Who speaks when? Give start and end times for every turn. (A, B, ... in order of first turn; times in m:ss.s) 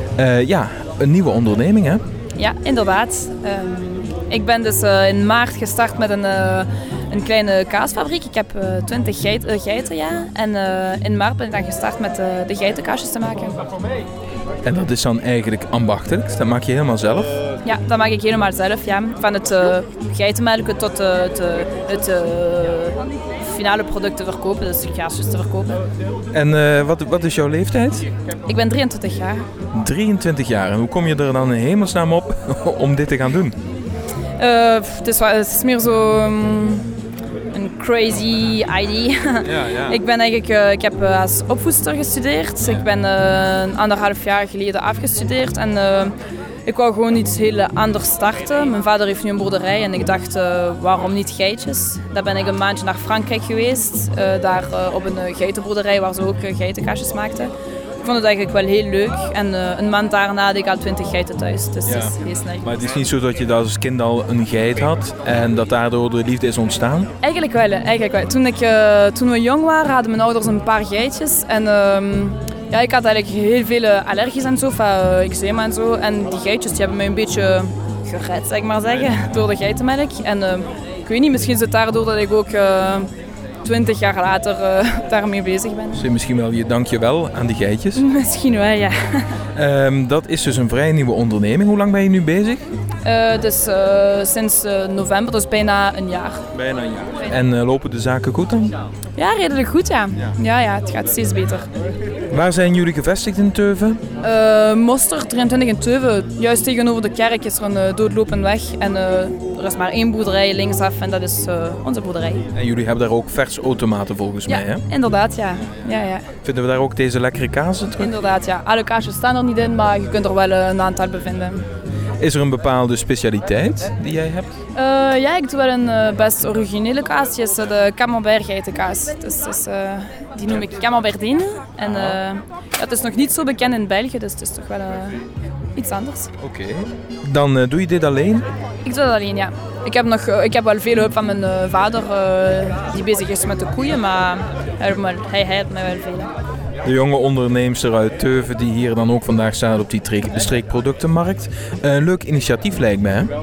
0:00.2-0:02.0 A
0:02.4-0:13.6 B
0:14.6-0:17.4 A
0:17.6-0:25.8 B
0:26.3-0:28.1 A
0:28.5-0:29.5 B
0:29.7-0:33.6 A
0:34.4-0:36.9 B
0:37.5-0:46.2 B
0:39.4-0:40.0 A
0:46.7-1:02.7 B
1:01.8-1:07.1 A
1:07.2-1:23.1 B
1:23.6-1:26.0 B
1:26.0-1:28.0 A
1:28.0-1:29.4 B
1:29.5-1:32.6 A
1:33.0-1:36.5 B
1:36.5-1:38.8 A
1:39.2-1:41.7 B
1:42.3-1:44.0 A
1:44.2-1:52.5 B
1:52.5-1:54.8 A
1:54.5-1:56.3 B
1:56.4-1:58.1 A
1:58.0-2:01.6 B
2:02.2-2:04.5 A
2:04.7-2:15.2 B
2:11.8-2:12.2 A
2:15.8-2:16.3 B
2:16.4-2:18.5 A
2:18.8-2:26.3 B
2:26.8-2:33.3 A